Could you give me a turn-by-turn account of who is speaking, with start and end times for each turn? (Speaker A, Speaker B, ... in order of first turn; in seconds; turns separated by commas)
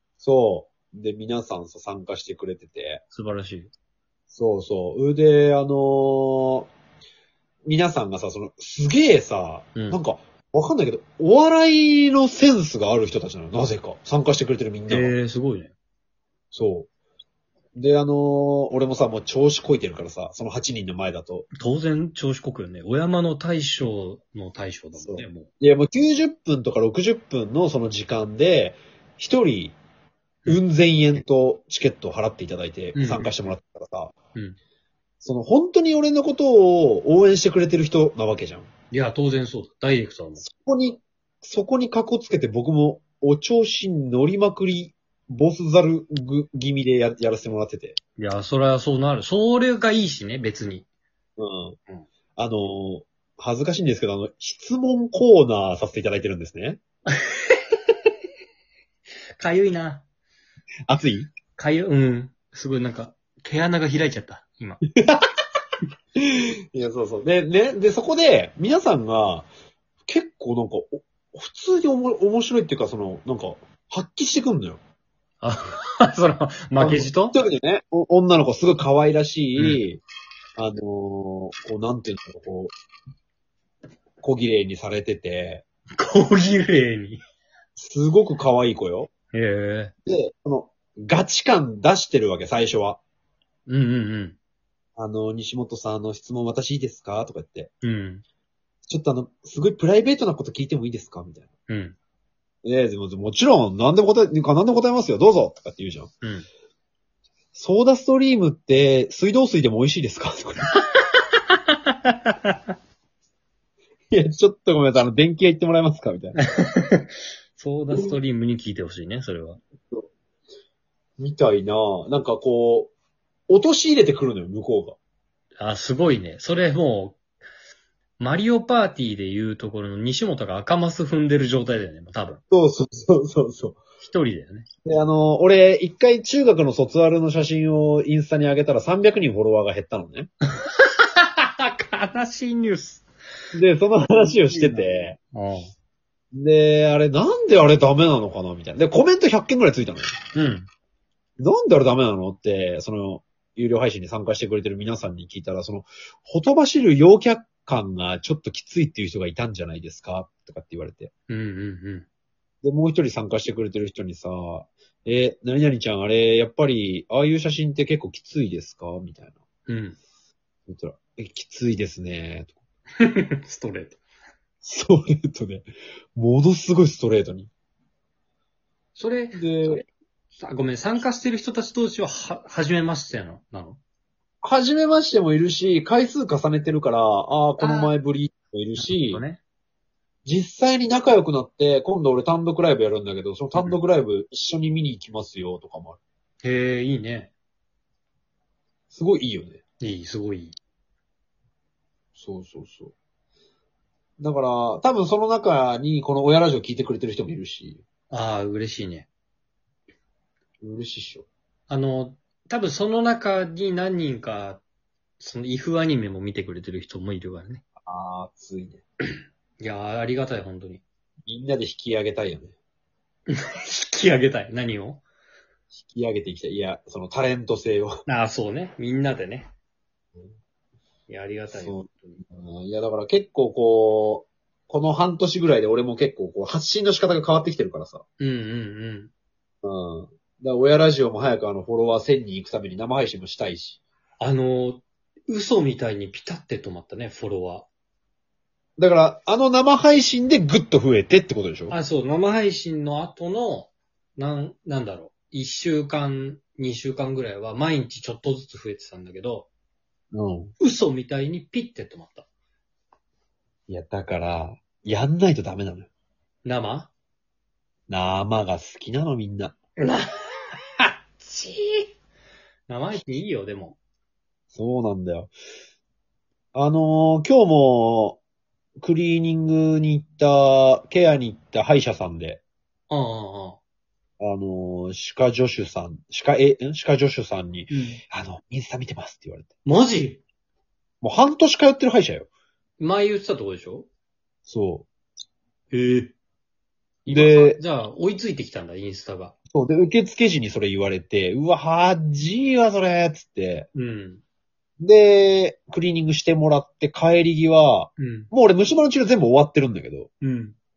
Speaker A: 0.2-3.0, Speaker B: 3.1-3.7, Speaker A: 4.3-6.7, Speaker A: 7.7-15.1, Speaker B: 14.9-15.7, Speaker A: 16.5-16.9, Speaker A: 17.8-21.5, Speaker B: 21.5-25.5, Speaker A: 25.0-29.8, Speaker A: 30.5-34.1, Speaker B: 32.9-33.4, Speaker A: 35.2-38.7, Speaker B: 38.9-40.4, Speaker A: 40.4-48.0, Speaker B: 48.2-50.9, Speaker A: 51.4-51.8, Speaker A: 52.4-56.8, Speaker B: 57.1-58.1, Speaker B: 59.4-60.0, Speaker A: 60.9-61.3, Speaker B: 61.6-64.8, Speaker A: 64.9-65.3, Speaker A: 66.2-69.5, Speaker A: 70.1-74.8, Speaker B: 75.4-77.4, Speaker A: 76.8-80.0, Speaker B: 79.6-79.8, Speaker A: 80.6-82.7, Speaker A: 84.2-85.6, Speaker B: 86.0-87.2, Speaker A: 87.8-89.1, Speaker B: 89.3-89.9, Speaker A: 90.1-93.0, Speaker B: 93.7-94.4, Speaker A: 95.0-97.7, Speaker B: 97.8-98.2, Speaker A: 98.9-101.5, Speaker B: 101.7-102.0, Speaker A: 102.6-106.1, Speaker A: 107.5-110.7, Speaker B: 111.9-112.6, Speaker A: 114.1-116.4, Speaker B: 116.6-119.6, Speaker A: 117.9-118.2, Speaker A: 121.2-122.9, Speaker A: 123.5-125.0, Speaker B: 125.6-127.2, Speaker B: 128.2-132.4, Speaker A: 132.5-133.8, Speaker B: 134.0-134.7, Speaker A: 134.8-140.3, Speaker B: 140.6-143.0, Speaker A: 143.5-145.2, Speaker B: 144.1-145.7, Speaker A: 146.3-150.2, Speaker B: 150.3-150.7, Speaker A: 151.4-161.1, Speaker B: 161.3-162.1, Speaker A: 162.6-169.4, Speaker B: 169.7-170.0, Speaker A: 170.7-172.6, Speaker B: 173.0-174.0, Speaker A: 174.6-177.5, Speaker B: 178.9-179.8, Speaker A: 179.3-179.8, Speaker B: 180.4-183.8, Speaker A: 184.4-189.2, Speaker B: 187.6-187.9, Speaker B: 188.8-189.4, Speaker A: 190.2-196.0, Speaker B: 196.4-197.3, Speaker A: 198.9-199.6, Speaker B: 199.8-200.6, Speaker A: 202.1-202.9, Speaker A: 204.2-207.8, Speaker B: 208.1-209.1, Speaker A: 210.6-211.3, Speaker B: 211.7-214.6, Speaker B: 215.2-217.6, Speaker A: 217.8-218.8, Speaker B: 219.6-220.8, Speaker A: 221.2-222.6, Speaker B: 223.3-225.0, Speaker A: 225.7-227.9, Speaker B: 228.1-229.5, Speaker B: 231.1-232.2, Speaker A: 231.5-238.0, Speaker B: 238.2-239.1, Speaker A: 239.6-243.8, Speaker B: 244.2-247.7, Speaker A: 248.8-251.8, Speaker B: 251.7-259.5, Speaker A: 260.1-260.5, Speaker B: 260.6-262.3, Speaker A: 263.7-265.9, Speaker B: 266.4-266.9, Speaker A: 267.9-269.6, Speaker B: 269.8-271.9, Speaker B: 272.7-273.8, Speaker A: 274.5-275.3, Speaker A: 276.5-278.2, Speaker A: 278.8-282.4, Speaker B: 282.9-283.6, Speaker A: 284.2-289.5, Speaker B: 287.7-288.0, Speaker B: 289.6-290.2, Speaker A: 291.0-292.3, Speaker B: 292.8-293.9, Speaker A: 294.5-294.9, Speaker B: 295.7-296.1, Speaker B: 297.0-299.4, Speaker A: 297.1-297.6, Speaker A: 299.5-303.7, Speaker B: 303.7-304.2, Speaker A: 304.8-310.1, Speaker B: 308.0-308.3, Speaker B: 310.2-310.6